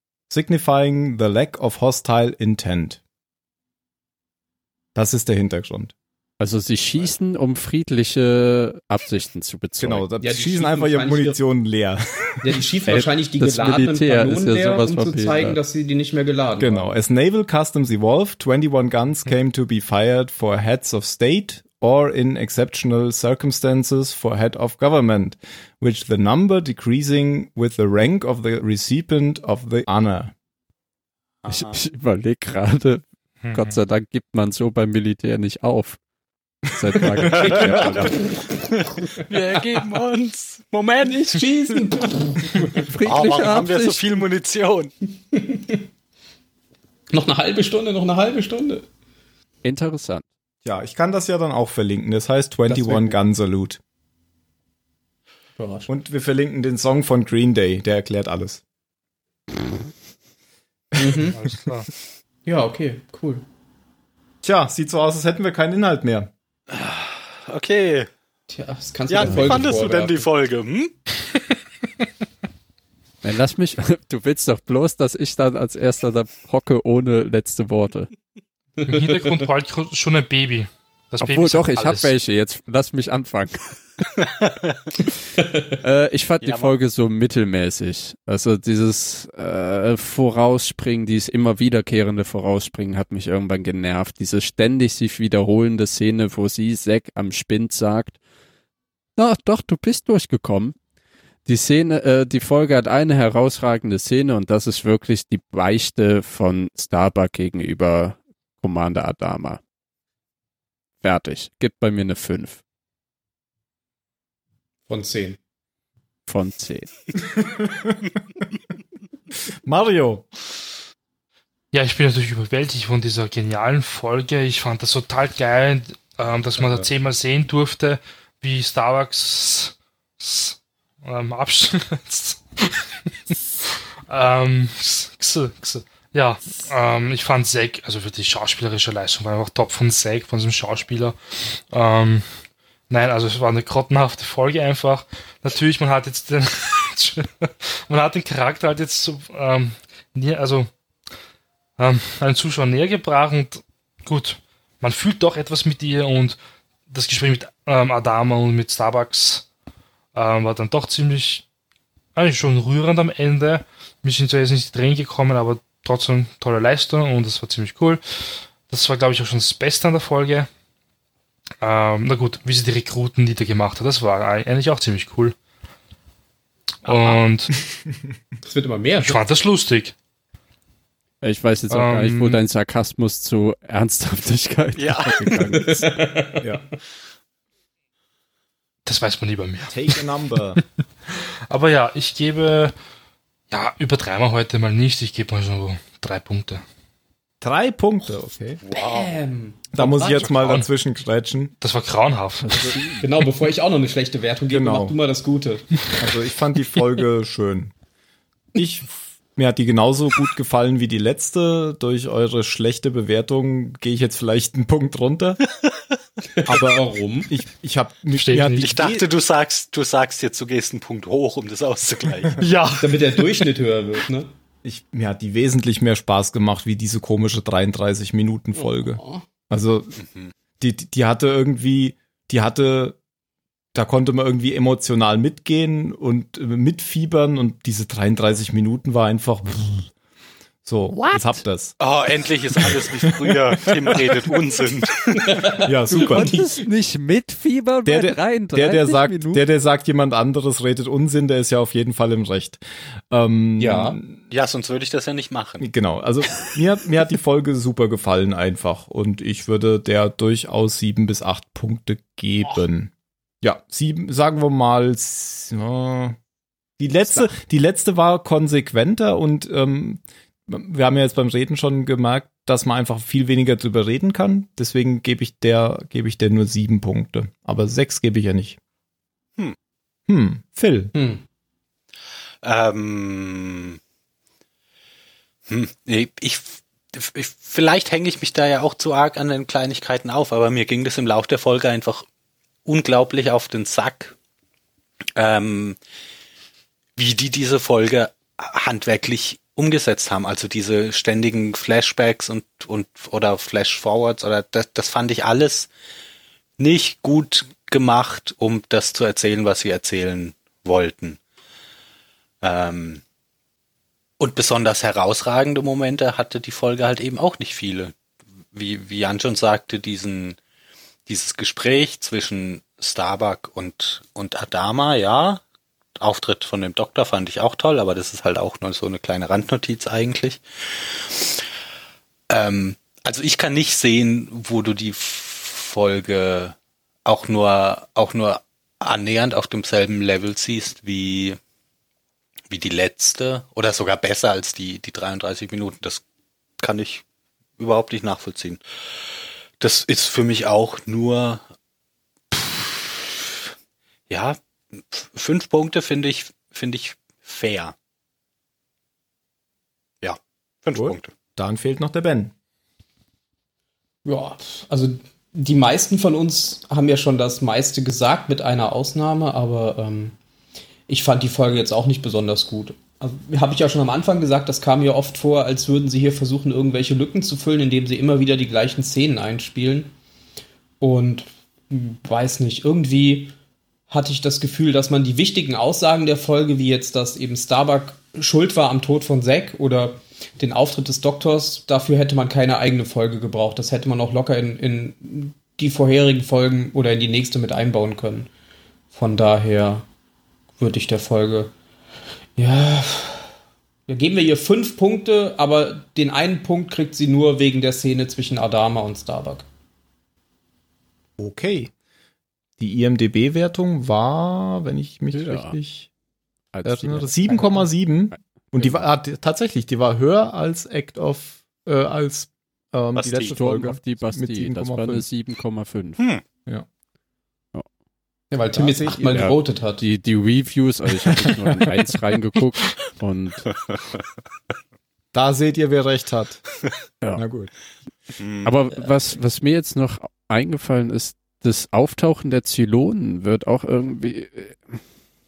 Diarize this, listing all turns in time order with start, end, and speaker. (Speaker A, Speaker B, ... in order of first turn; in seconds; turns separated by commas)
Speaker A: 0.3-3.0, Speaker A: 5.0-5.9, Speaker B: 6.4-10.1, Speaker A: 9.8-12.7, Speaker C: 10.2-11.4, Speaker C: 12.4-16.9, Speaker B: 12.9-15.6, Speaker A: 16.6-30.3, Speaker D: 31.4-31.8, Speaker B: 31.5-36.0, Speaker E: 33.4-33.8, Speaker B: 36.7-38.3, Speaker D: 37.3-41.8, Speaker C: 37.4-38.6, Speaker C: 41.0-42.9, Speaker B: 42.8-44.0, Speaker D: 43.0-44.9, Speaker C: 45.3-45.9, Speaker C: 47.1-48.9, Speaker B: 49.6-50.3, Speaker A: 50.6-53.8, Speaker C: 52.7-53.2, Speaker C: 55.6-55.9, Speaker A: 55.9-58.6, Speaker A: 61.0-61.3, Speaker C: 61.0-61.4, Speaker E: 61.3-61.9, Speaker C: 62.5-63.4, Speaker A: 64.4-66.3, Speaker D: 66.7-68.1, Speaker C: 68.5-70.3, Speaker D: 69.1-71.0, Speaker B: 69.2-69.8, Speaker B: 73.2-78.1, Speaker C: 78.8-79.3, Speaker E: 78.9-82.2, Speaker B: 81.2-83.8, Speaker D: 84.2-84.8, Speaker B: 85.7-98.2, Speaker D: 86.4-86.8, Speaker B: 99.2-100.8, Speaker B: 101.5-109.6, Speaker B: 111.0-112.6, Speaker C: 114.9-115.4, Speaker B: 116.3-116.9, Speaker A: 117.3-118.0, Speaker A: 119.7-120.2, Speaker E: 121.7-142.3, Speaker E: 142.9-150.7, Speaker E: 151.8-156.4, Speaker E: 156.9-159.5, Speaker E: 160.1-161.4, Speaker E: 162.2-170.5, Speaker E: 171.6-175.4, Speaker D: 176.8-177.2, Speaker E: 176.8-177.5, Speaker C: 178.4-179.2, Speaker E: 179.0-179.9, Speaker B: 181.2-186.0, Speaker E: 181.7-182.4, Speaker D: 184.8-185.4, Speaker C: 185.5-186.6, Speaker E: 188.9-190.0, Speaker A: 189.7-190.6, Speaker E: 191.1-192.7, Speaker E: 193.5-196.6, Speaker A: 197.4-198.6, Speaker D: 198.6-199.2, Speaker C: 198.7-200.4, Speaker A: 199.7-201.5, Speaker E: 200.2-200.7, Speaker E: 201.6-202.8, Speaker B: 202.4-203.1, Speaker C: 203.0-205.7, Speaker A: 204.5-205.0, Speaker A: 206.0-207.7, Speaker A: 208.6-215.4, Speaker C: 216.2-217.3, Speaker A: 216.4-219.1, Speaker E: 218.1-218.7, Speaker D: 218.6-222.4, Speaker E: 222.4-223.5, Speaker C: 222.8-224.3, Speaker A: 224.6-230.0, Speaker C: 228.6-229.2, Speaker D: 230.0-230.3, Speaker A: 230.6-233.0, Speaker A: 233.7-239.9, Speaker A: 240.7-241.8, Speaker D: 241.8-245.4, Speaker A: 242.6-244.4, Speaker C: 245.1-246.5, Speaker A: 245.6-246.3, Speaker B: 245.9-249.4, Speaker A: 247.8-254.2, Speaker C: 253.6-254.0, Speaker D: 254.3-255.7, Speaker A: 255.6-262.9, Speaker A: 263.4-266.2, Speaker A: 266.8-278.6, Speaker A: 280.1-280.9, Speaker C: 280.9-281.2, Speaker D: 282.4-283.8, Speaker D: 285.5-292.1, Speaker D: 292.7-294.1, Speaker D: 295.2-295.8, Speaker D: 297.0-305.7, Speaker D: 306.6-311.2, Speaker D: 312.4-313.0, Speaker D: 314.2-317.9, Speaker D: 318.5-320.4, Speaker D: 321.1-325.4, Speaker D: 326.0-331.4, Speaker D: 332.3-341.4, Speaker D: 342.5-346.0, Speaker D: 346.6-347.0, Speaker D: 347.6-348.6, Speaker D: 349.6-351.4, Speaker D: 352.3-353.4, Speaker D: 354.1-357.8, Speaker D: 360.0-361.1, Speaker A: 360.8-362.3, Speaker C: 364.1-370.2, Speaker C: 370.9-379.9, Speaker C: 380.8-383.4, Speaker C: 383.9-398.3, Speaker C: 398.9-399.9, Speaker C: 400.6-401.5, Speaker C: 402.4-403.3, Speaker C: 403.9-409.5, Speaker A: 411.2-411.7, Speaker A: 412.6-415.9, Speaker B: 415.1-415.6, Speaker B: 416.5-417.6, Speaker A: 416.6-425.1, Speaker D: 422.9-423.4, Speaker B: 423.2-426.0, Speaker C: 428.3-429.8, Speaker A: 428.6-429.0, Speaker B: 428.7-433.5, Speaker A: 435.1-436.4, Speaker A: 437.1-437.5, Speaker D: 438.2-438.5, Speaker B: 438.4-444.8